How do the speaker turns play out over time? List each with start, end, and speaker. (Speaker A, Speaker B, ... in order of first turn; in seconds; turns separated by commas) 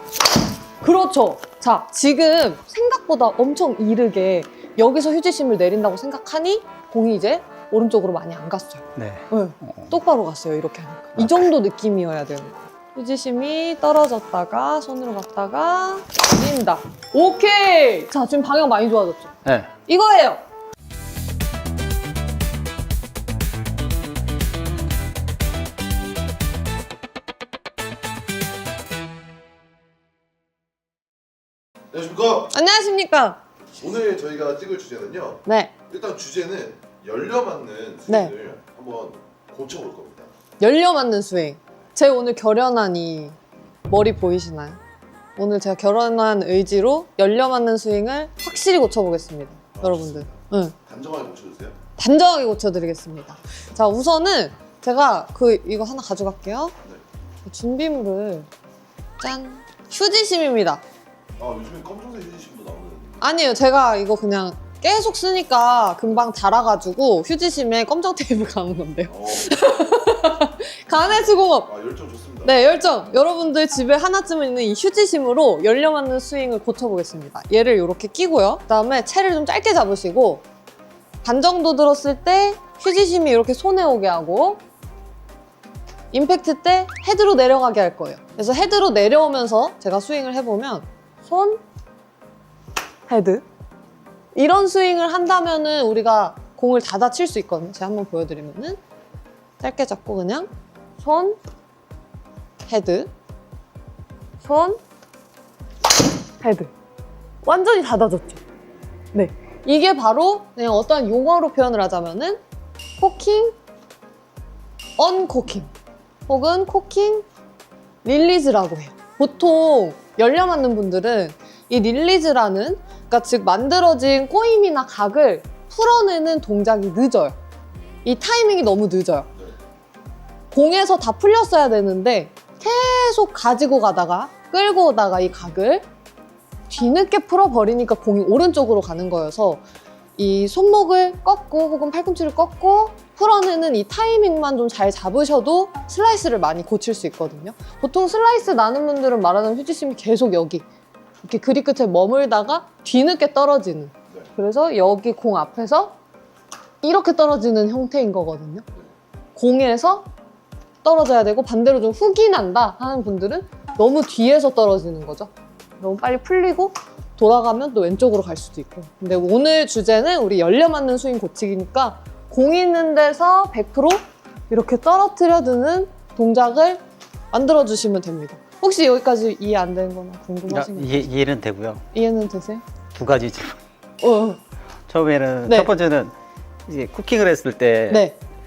Speaker A: 0.8-20.4, Speaker B: 9.0-9.9, Speaker B: 11.2-11.4, Speaker B: 19.4-19.7, Speaker C: 31.9-32.5, Speaker A: 32.5-33.4, Speaker C: 33.8-40.3, Speaker A: 35.5-35.7, Speaker A: 38.1-38.3, Speaker A: 40.6-43.4, Speaker A: 43.9-44.8, Speaker A: 45.4-50.8, Speaker C: 49.8-50.3, Speaker C: 50.9-51.8, Speaker A: 52.0-56.7, Speaker A: 57.5-58.5, Speaker A: 59.2-60.8, Speaker C: 61.4-63.2, Speaker A: 63.2-71.7, Speaker C: 69.1-69.5, Speaker C: 71.7-72.5, Speaker A: 72.4-80.4, Speaker A: 81.2-84.6, Speaker A: 86.1-91.6, Speaker A: 93.1-93.4, Speaker A: 94.3-98.8, Speaker A: 99.6-101.4, Speaker A: 102.7-103.1, Speaker A: 104.4-104.8, Speaker A: 106.4-106.7, Speaker A: 107.4-108.4, Speaker A: 109.1-112.4, Speaker A: 113.0-113.6, Speaker A: 115.0-115.7, Speaker A: 116.3-117.2, Speaker A: 118.0-127.4, Speaker A: 128.1-129.3, Speaker A: 130.5-135.8, Speaker A: 136.7-139.6, Speaker A: 140.2-150.7, Speaker A: 151.2-156.0, Speaker A: 156.8-158.7, Speaker A: 159.4-160.1, Speaker A: 160.8-176.8, Speaker A: 177.3-181.1, Speaker B: 180.5-181.8, Speaker A: 181.9-182.6, Speaker B: 182.9-183.6, Speaker A: 184.0-184.4, Speaker B: 184.9-186.1, Speaker B: 186.7-188.1, Speaker A: 187.9-188.2